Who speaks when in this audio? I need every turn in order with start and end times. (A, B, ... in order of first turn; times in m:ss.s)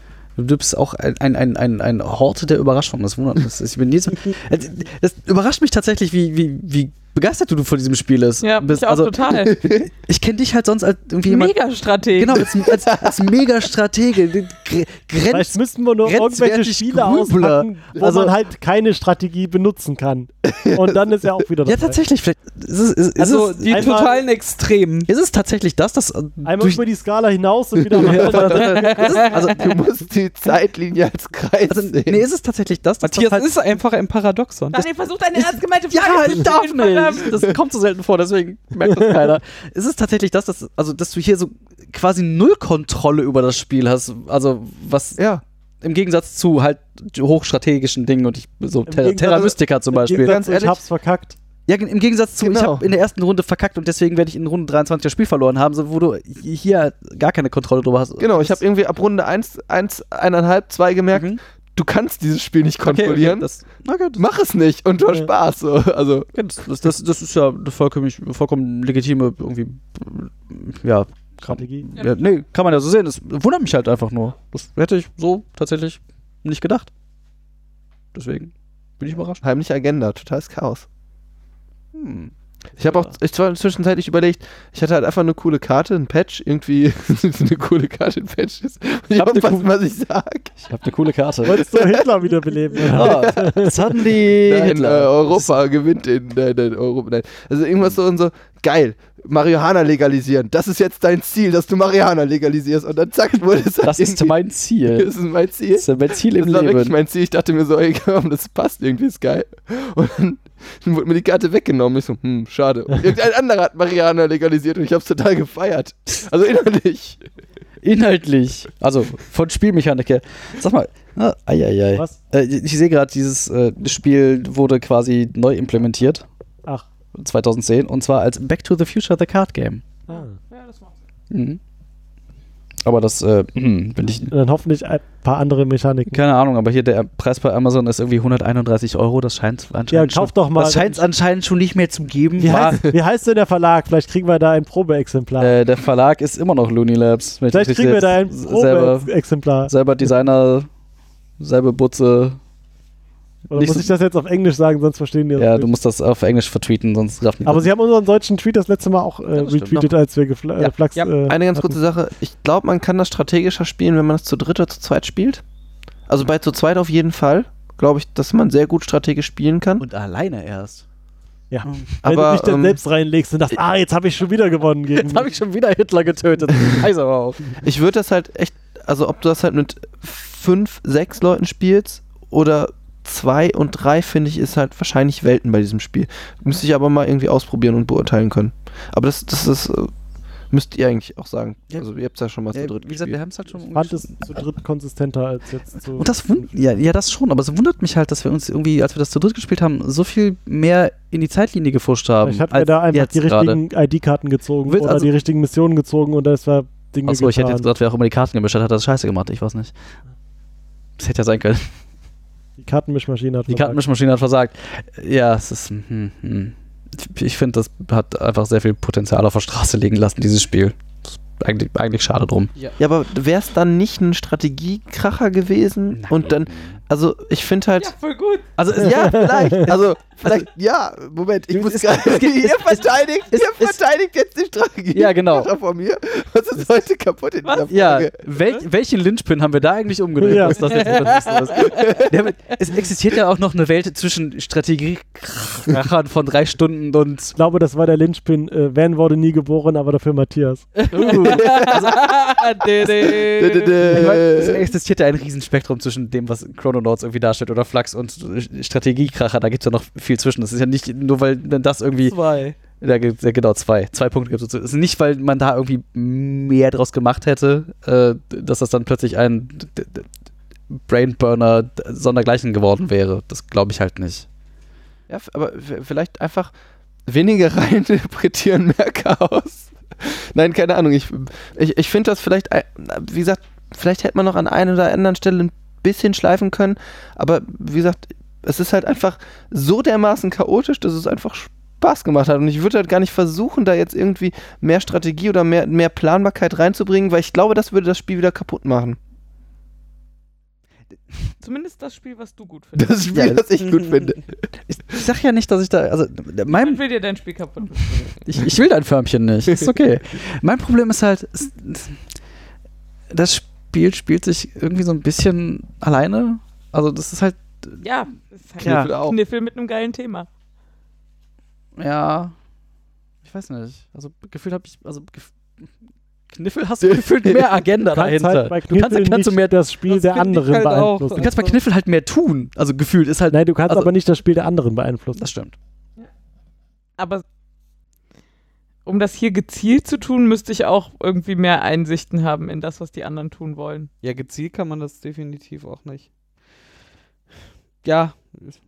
0:00.4-0:11.5 A
0:08.4-0:09.5 B
0:09.4-0:09.9 C
0:11.2-0:12.5 B
0:12.1-0:15.5 A
0:12.4-0:13.3 C
0:15.3-0:22.0 D
0:16.0-0:18.3 A
0:20.4-0:21.0 C
0:21.6-0:24.1 A
0:23.2-0:25.1 E
0:23.7-0:24.2 D
0:25.1-0:26.8 A
0:26.4-0:28.8 D
0:27.9-0:32.2 C
0:28.0-0:29.7 A
0:28.6-0:29.4 E
0:31.7-0:33.5 A
0:33.0-0:34.8 E
0:34.7-0:37.3 B
0:35.4-0:45.2 A
0:45.2-0:45.4 C
0:45.8-0:50.4 A
0:48.9-0:51.4 D
0:50.2-0:50.8 C
0:51.7-0:58.6 A
0:52.4-0:52.9 C
0:58.2-1:03.5 C
1:01.1-1:01.4 A
1:02.8-1:04.2 A
1:04.2-1:06.3 C
1:06.3-1:16.9 A
1:11.4-1:11.9 D
1:18.1-1:19.4 A
1:19.4-1:20.9 C
1:21.9-1:22.3 A
1:22.8-1:30.6 C
1:29.1-1:29.6 A
1:30.6-1:31.6 A
1:31.4-1:33.8 D
1:31.6-1:32.0 C
1:32.8-1:35.5 A
1:32.9-1:33.6 C
1:34.2-1:44.3 C
1:43.8-1:45.1 A
1:44.9-1:57.2 C
1:45.7-1:46.9 A
1:57.8-2:06.2 A
2:07.1-2:09.8 A
2:10.1-2:10.9 B
2:11.3-2:11.6 A
2:12.8-2:14.3 A
2:14.3-2:16.2 D
2:16.1-2:22.8 A
2:19.9-2:21.0 D
2:22.4-2:25.5 D
2:25.4-2:29.1 A
2:27.5-2:29.7 D
2:29.7-2:30.7 A
2:31.4-2:32.4 A
2:33.5-2:35.7 D
2:33.5-2:33.9 A
2:35.4-2:37.7 A
2:37.4-2:41.8 D
2:39.3-2:39.9 A
2:41.3-2:45.4 C
2:46.1-2:49.8 C
2:49.8-2:50.8 A
2:51.5-2:55.3 D
2:51.6-2:52.0 A
2:52.0-2:52.8 C
2:55.0-2:57.6 A
2:57.6-3:09.9 C
3:10.5-3:13.2 C
3:12.5-3:14.2 A
3:13.7-3:16.1 D
3:16.0-3:23.6 A
3:22.2-3:27.7 D
3:24.7-3:25.1 A
3:27.0-3:29.7 A
3:31.0-3:31.7 A
3:32.6-3:33.8 D
3:33.5-3:42.5 A
3:42.8-3:47.9 C
3:45.9-3:46.8 A
3:47.8-3:48.4 B
3:48.6-3:50.4 A
3:48.7-3:58.2 C
3:49.0-3:49.6 D
3:51.5-3:53.8 A
3:54.9-3:55.5 A
3:57.4-3:57.7 B
3:57.7-4:07.4 A
4:00.2-4:00.9 D
4:00.7-4:01.9 E
4:01.6-4:02.2 C
4:07.4-4:10.7 D
4:10.8-4:13.9 E
4:10.9-4:11.9 A
4:11.1-4:12.0 C
4:12.8-4:14.7 C
4:13.8-4:22.2 A
4:22.0-4:22.6 E
4:22.8-4:30.1 A
4:30.7-4:34.3 A
4:35.1-4:36.5 C
4:37.1-4:59.0 C
5:01.4-5:03.0 B
5:02.8-5:04.4 C
5:03.1-5:03.4 A
5:04.9-5:06.8 A
5:06.5-5:08.0 B
5:08.2-5:12.0 A
5:13.1-5:17.8 A
5:17.8-5:20.3 B
5:18.6-5:19.2 C
5:18.6-5:18.9 A
5:21.8-5:22.3 A
5:23.2-5:25.7 A
5:26.3-5:29.6 A
5:26.8-5:27.5 C
5:27.9-5:31.3 D
5:29.9-5:31.6 E
5:31.2-5:33.9 A
5:33.3-5:35.3 D
5:35.2-5:35.6 A
5:37.0-5:37.2 B
5:38.8-5:43.9 B
5:44.0-5:46.1 E
5:47.8-5:48.6 E